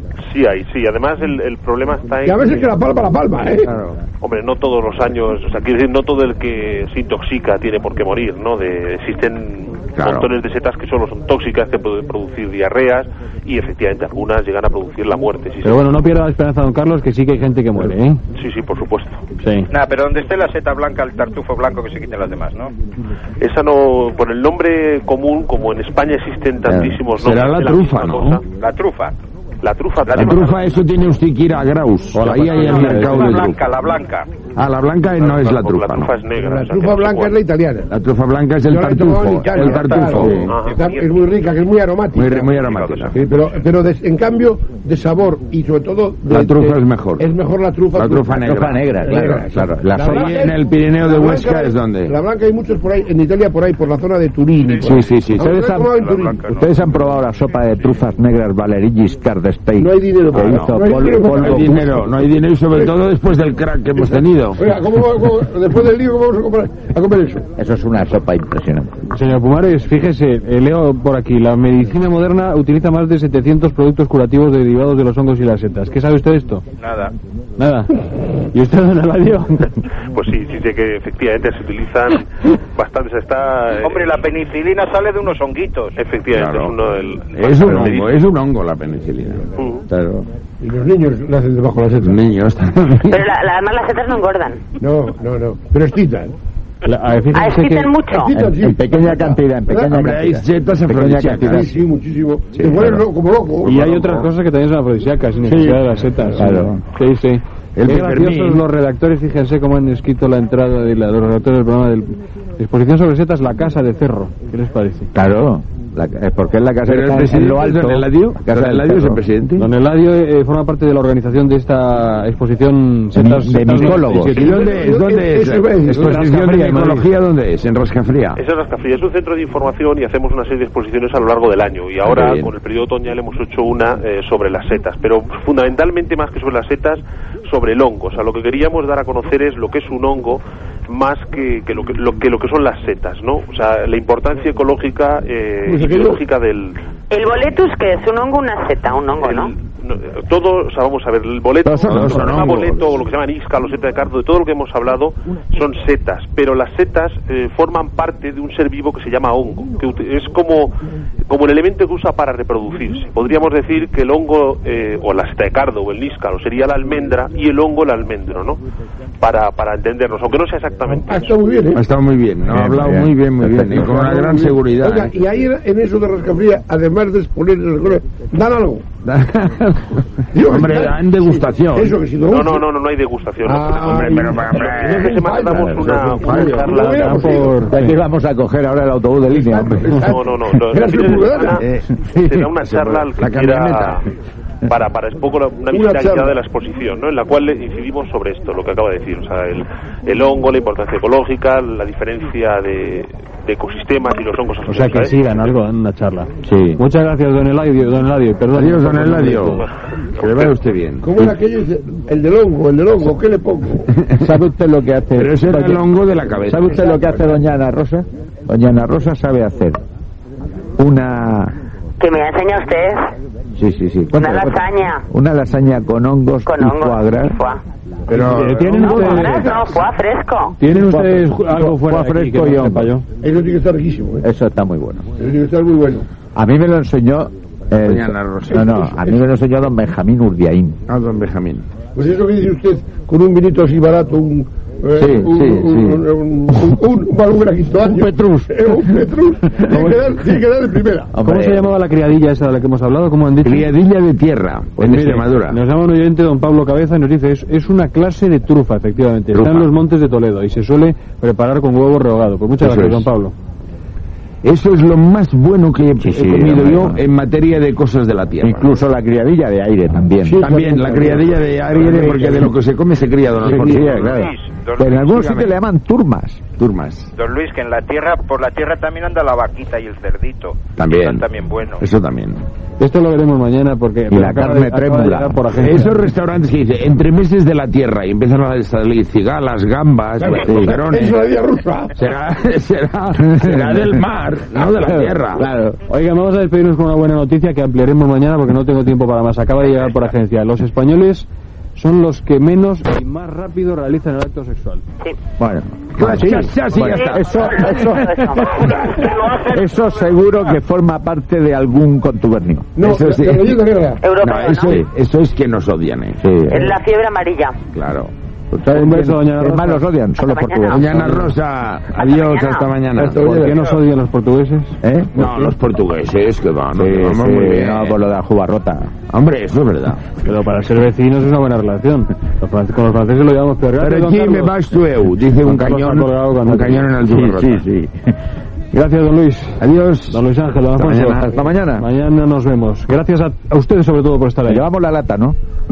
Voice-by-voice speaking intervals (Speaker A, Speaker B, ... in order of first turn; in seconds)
Speaker A: 0.3-2.7, 4.2-15.9, 18.3-19.2, 23.4-28.4, 29.6-30.6, 35.2-37.4, 40.5-40.8, 80.1-84.2, 86.0-88.2, 89.6-89.8, 128.4-146.8, 149.2-160.7, 161.3-168.6, 169.2-171.3, 182.2-187.4, 189.9-194.1, 194.7-205.5, 210.2-210.5
Speaker B: 2.2-3.7, 36.4-37.9, 38.7-42.5, 43.1-56.4, 59.8-62.0, 64.0-67.5, 90.6-92.2, 94.8-96.3, 98.1-100.1, 101.5-103.7, 124.3-126.2, 145.7-146.2, 170.9-171.9, 173.7-178.9, 180.3-182.7, 183.4-187.9, 189.3-191.6, 195.7-196.4, 211.0-213.9, 216.7-217.4, 228.9-229.7, 233.2-234.2, 235.2-236.1, 238.6-239.2, 242.0-251.1, 270.2-272.6, 273.4-273.9, 290.2-292.0, 306.2-306.5, 308.7-309.0, 312.8-314.0, 323.0-323.7
Speaker C: 3.6-4.0, 10.0-10.3, 27.2-28.4, 30.1-33.6, 34.5-36.1, 37.9-40.6, 42.1-43.1, 46.3-47.3, 48.0-48.9, 50.0-52.1, 54.8-55.5, 60.3-64.6, 86.3-86.8, 87.3-89.5, 92.0-93.2, 99.9-101.7, 102.6-103.0, 103.7-104.3, 107.8-108.6, 116.9-119.7, 124.3-128.4, 132.0-132.5, 151.7-152.8, 171.7-175.1, 179.0-181.9, 183.6-186.7, 191.6-194.0, 208.5-209.7, 210.2-211.3, 215.2-216.8, 228.1-229.6, 237.8-238.9, 240.9-241.7, 253.4-255.6, 259.3-259.7, 262.6-263.1, 264.4-268.6, 270.4-274.2, 275.2-275.5, 276.6-277.1, 280.8-281.3, 281.8-282.4, 285.6-291.2, 292.0-295.5, 305.9-308.2, 312.8-313.6, 314.2-316.4, 317.7-318.1, 320.7-323.5, 325.1-328.0, 329.1-330.1, 333.8-337.6, 339.6-340.2
Speaker D: 15.6-18.2, 19.4-19.7, 32.1-33.5, 69.1-76.6, 77.6-77.9, 78.5-79.7, 96.8-97.9, 103.6-115.1, 119.6-124.6, 126.0-127.1, 186.7-187.9, 204.7-209.6, 228.1-229.5, 230.6-233.0, 251.2-253.7, 254.8-263.3, 282.8-286.0, 294.8-295.1, 295.9-304.8, 318.7-319.9, 323.1-324.8, 330.2-334.6, 335.5-336.9, 338.7-341.2, 341.8-344.6
Speaker E: 19.7-22.7, 28.5-29.1, 30.1-30.5, 32.6-34.3, 40.7-41.2, 42.6-43.1, 54.6-55.0, 55.8-56.7, 76.8-77.1, 83.8-86.0, 273.9-275.4, 277.1-281.8, 308.4-310.6
Speaker F: 26.7-27.0, 48.4-50.5, 55.4-62.0, 67.6-69.0, 98.3-101.8, 102.6-103.0, 106.4-106.8, 115.1-119.2, 123.1-124.4, 151.7-152.7, 172.5-173.9, 187.7-190.0, 206.4-206.8, 214.2-215.8, 216.5-219.8, 220.8-221.6, 223.6-227.4, 230.7-232.9, 234.2-235.1, 236.3-240.8, 244.9-246.8, 247.8-249.0, 249.7-250.0, 251.1-251.7, 266.0-267.0, 268.4-270.8, 273.4-276.5, 284.1-285.4, 290.4-290.9, 293.4-294.0, 295.4-295.8, 305.4-312.8, 316.2-316.8, 318.5-321.3, 324.8-325.5, 326.8-329.0, 337.0-338.1, 340.8-341.9, 344.4-345.4
Speaker G: 93.1-94.7, 97.3-98.3, 147.1-149.5, 222.0-223.1, 224.1-225.0, 226.5-227.6, 228.8-230.6, 306.8-308.9, 314.0-314.8, 316.5-317.6, 320.2-320.9, 321.9-322.7